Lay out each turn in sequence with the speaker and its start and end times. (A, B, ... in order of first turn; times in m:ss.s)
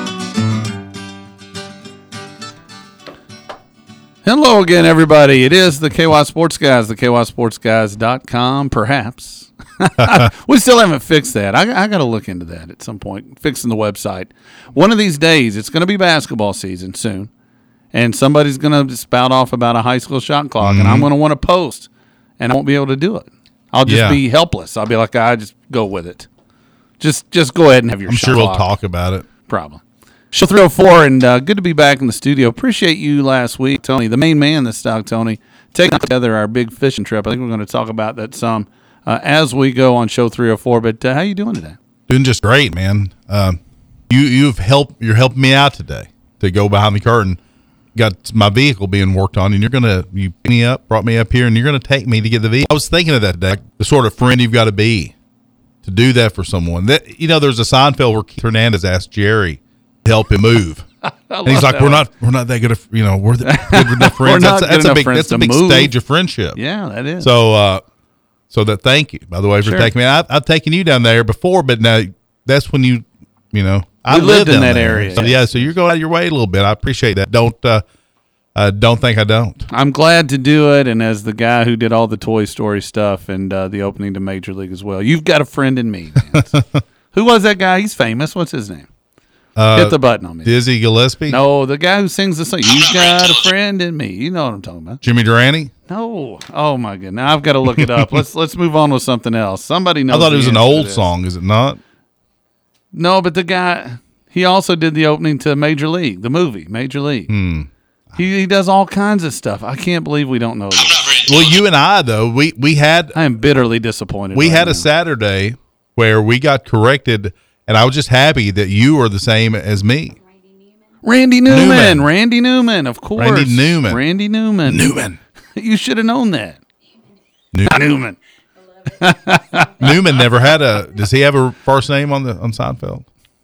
0:04.2-0:17.3 A
0:17.9-0:26.3 A
0:20.6-0:21.1 B
0:23.8-0:24.2 B
0:27.0-0:28.7 A
0:28.1-0:29.3 B
0:29.5-0:29.8 A
0:30.3-0:41.8 A
0:42.1-0:47.4 B
0:48.0-0:55.1 B
0:55.8-1:00.9 B
1:01.0-1:02.0 A
1:01.4-1:06.6 B
1:03.4-1:05.9 A
1:06.5-1:07.3 A
1:07.2-1:07.8 B
1:08.5-1:17.8 B
1:09.6-1:09.9 A
1:14.1-1:15.7 A
1:18.6-1:19.7 B
1:19.7-1:26.6 A
1:26.5-1:26.8 B
1:27.1-1:28.9 A
1:29.6-1:31.4 B
1:29.7-1:30.5 A
1:31.3-1:35.0 A
1:35.0-1:35.7 B
1:35.9-1:41.1 A
1:37.8-1:38.2 B
1:40.1-1:41.8 B
1:42.9-1:47.3 A
1:47.3-1:47.7 B
1:48.2-1:51.2 A
1:51.2-1:53.2 B
1:53.1-1:54.9 A
1:54.3-2:00.2 B
2:01.0-2:04.9 A
2:01.5-2:02.1 B
2:03.2-2:04.0 B
2:04.7-2:05.2 B
2:05.6-2:06.6 A
2:07.5-2:07.8 B
2:07.6-2:08.2 A
2:08.9-2:09.7 A
2:09.8-2:13.1 B